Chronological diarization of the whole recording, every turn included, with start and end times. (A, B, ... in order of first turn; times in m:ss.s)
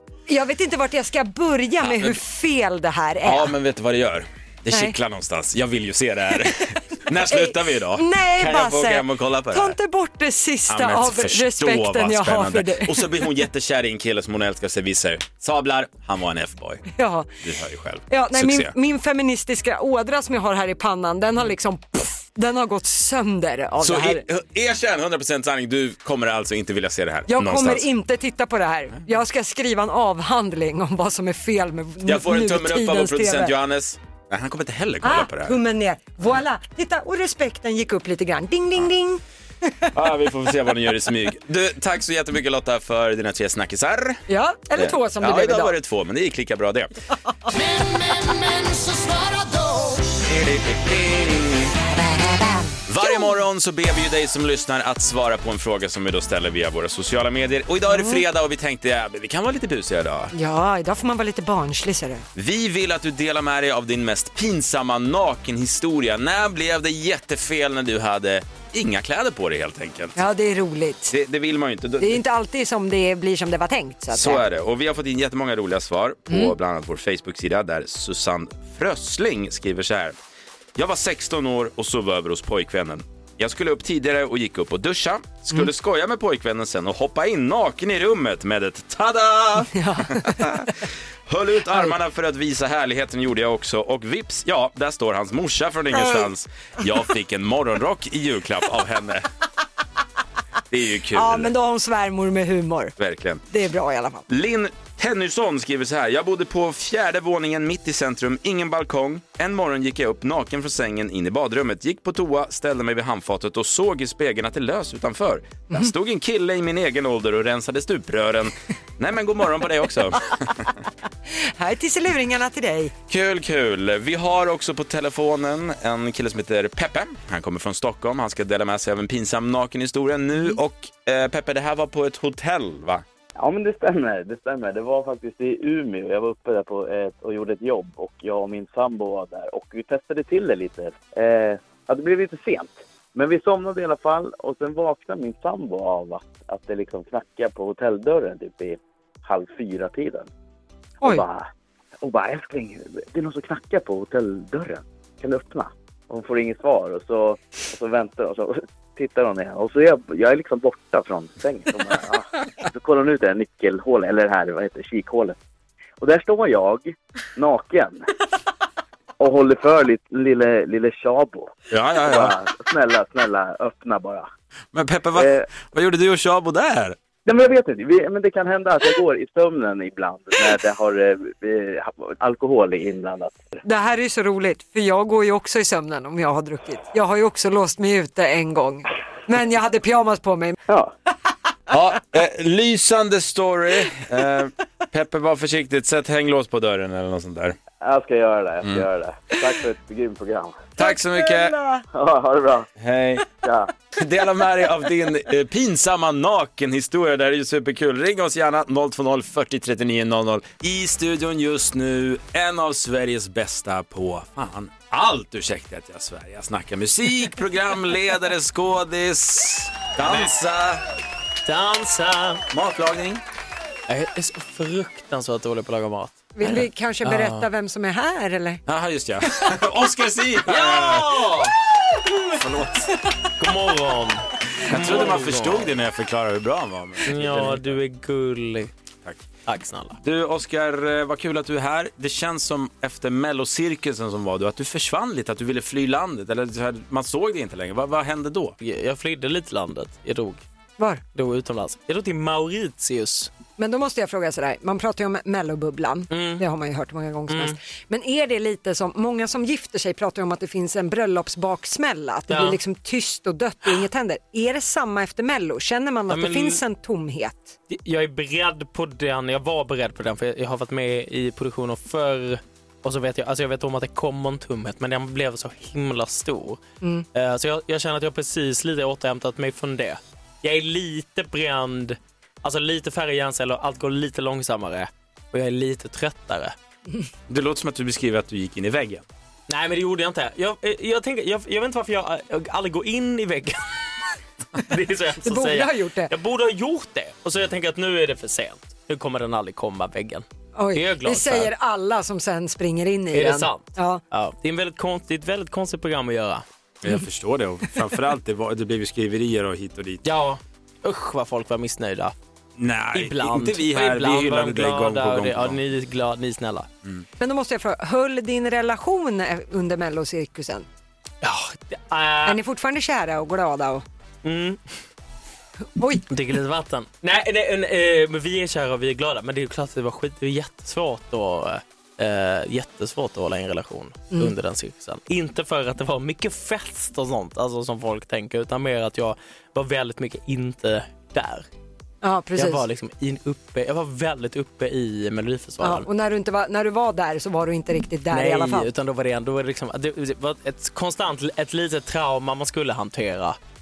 0:00.3-0:03.6 A
0:01.8-0:02.2 B
0:03.2-0:09.8 B
0:07.3-0:13.2 A
0:10.7-0:16.9 B
0:17.0-0:17.3 A
0:17.4-0:18.7 B
0:18.1-0:24.3 A
0:23.8-0:27.9 B
0:27.3-0:33.5 A
0:32.0-0:35.6 B
0:35.0-0:39.9 A
0:39.9-0:44.2 B
0:44.3-0:45.7 A
0:44.8-0:46.9 B
0:47.5-0:50.2 C
0:50.2-0:51.8 B
0:51.9-0:53.4 A
0:52.9-1:00.3 B
0:57.9-0:58.2 A
1:00.3-1:02.3 A
1:02.4-1:10.2 B
1:10.2-1:11.1 A
1:11.1-1:12.2 B
1:12.0-1:14.4 A
1:14.1-1:20.2 B
1:16.3-1:16.5 A
1:20.8-1:39.3 B
1:29.7-1:30.9 A
1:40.7-1:41.5 B
1:41.1-1:43.0 A
1:43.0-1:43.4 B
1:43.5-1:44.3 A
1:44.3-2:00.7 B
2:01.3-2:02.9 A
2:03.1-2:13.0 B
2:13.4-2:30.3 D
2:31.0-2:31.5 D
2:32.0-2:45.4 D
2:46.0-2:48.1 D
2:49.2-2:54.3 D
2:51.7-2:52.4 B
2:54.7-2:57.0 B
2:55.2-2:55.5 D
2:57.3-3:03.6 D
3:03.6-3:10.6 A
3:11.7-3:17.6 B
3:17.8-3:20.7 D
3:20.8-3:21.6 B
3:20.8-3:21.8 A
3:21.9-3:22.7 D
3:22.8-3:23.3 B
3:23.4-3:23.7 D
3:23.9-3:40.8 B
3:40.0-3:40.3 E
3:41.4-3:42.4 E
3:42.5-3:43.2 B
3:43.9-3:47.5 E
3:46.4-3:48.6 A
3:48.7-3:51.4 B
3:50.5-3:51.6 E
3:52.4-3:52.9 B
3:53.4-3:55.7 E
3:54.7-3:57.8 B
3:57.1-3:58.7 E
3:59.5-4:00.0 E
4:00.0-4:08.6 B
4:08.6-4:10.4 E
4:11.2-4:13.3 E
4:13.6-4:27.6 A
4:16.1-4:16.4 E
4:17.3-4:17.6 E
4:22.3-4:22.6 E
4:26.1-4:26.6 E
4:27.7-4:36.6 E
4:37.1-4:46.6 E
4:47.3-4:49.0 B
4:49.5-4:53.8 E
4:54.6-5:01.5 E
4:55.2-4:56.1 A
5:00.6-5:04.0 A
5:03.1-5:06.4 E
5:06.8-5:10.0 B
5:10.0-5:12.1 E
5:12.6-5:15.6 B
5:12.9-5:16.7 E
5:17.2-5:20.7 A
5:21.2-5:22.4 E
5:22.3-5:23.8 A
5:24.2-5:24.6 E
5:25.8-5:26.0 A
5:26.1-5:41.5 E
5:42.0-5:42.6 A
5:42.4-5:45.9 E
5:45.6-5:48.7 A
5:48.1-5:53.4 E